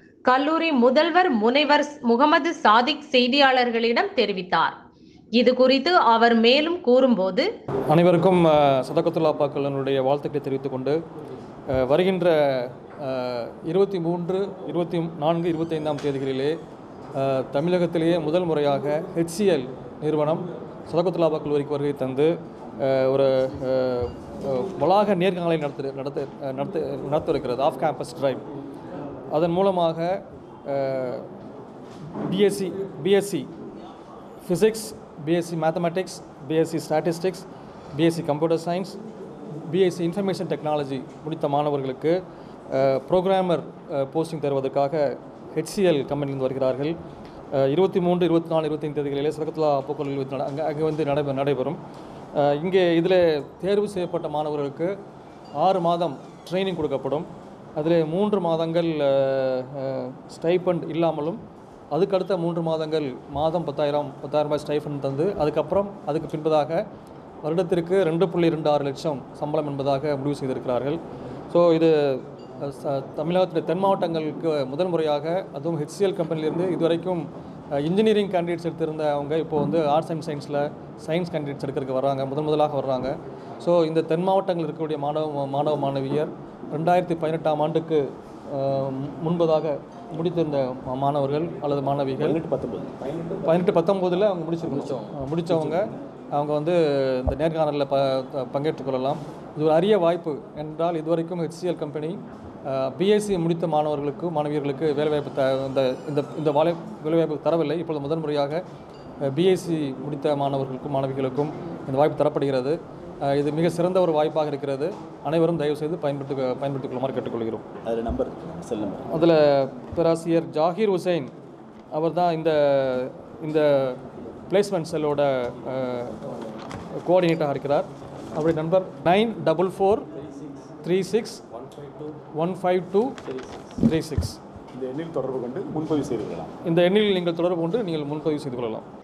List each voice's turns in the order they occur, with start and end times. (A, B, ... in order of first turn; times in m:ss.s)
0:00.3-0:04.8 A
0:05.4-0:07.5 A
0:07.9-0:11.0 B
0:11.7-0:16.6 B
0:17.1-0:28.4 B
0:29.3-0:31.3 B
0:32.2-0:33.5 B
0:34.4-0:39.0 B
0:39.7-0:42.2 B
0:42.7-0:47.0 B
0:47.5-0:51.8 B
0:52.4-0:54.9 B
0:55.6-1:01.4 B
1:01.9-1:06.8 B
1:07.4-1:11.0 B
1:11.5-1:32.4 B
1:32.2-1:33.1 C
1:33.4-1:48.6 B
1:34.8-1:35.1 C
1:49.2-1:57.7 B
1:57.8-1:59.1 C
1:59.1-2:01.3 B
2:01.9-2:06.2 B
2:07.0-2:10.1 B
2:10.8-2:11.4 B
2:12.1-2:14.4 B
2:14.8-2:16.5 C
2:16.6-2:18.9 B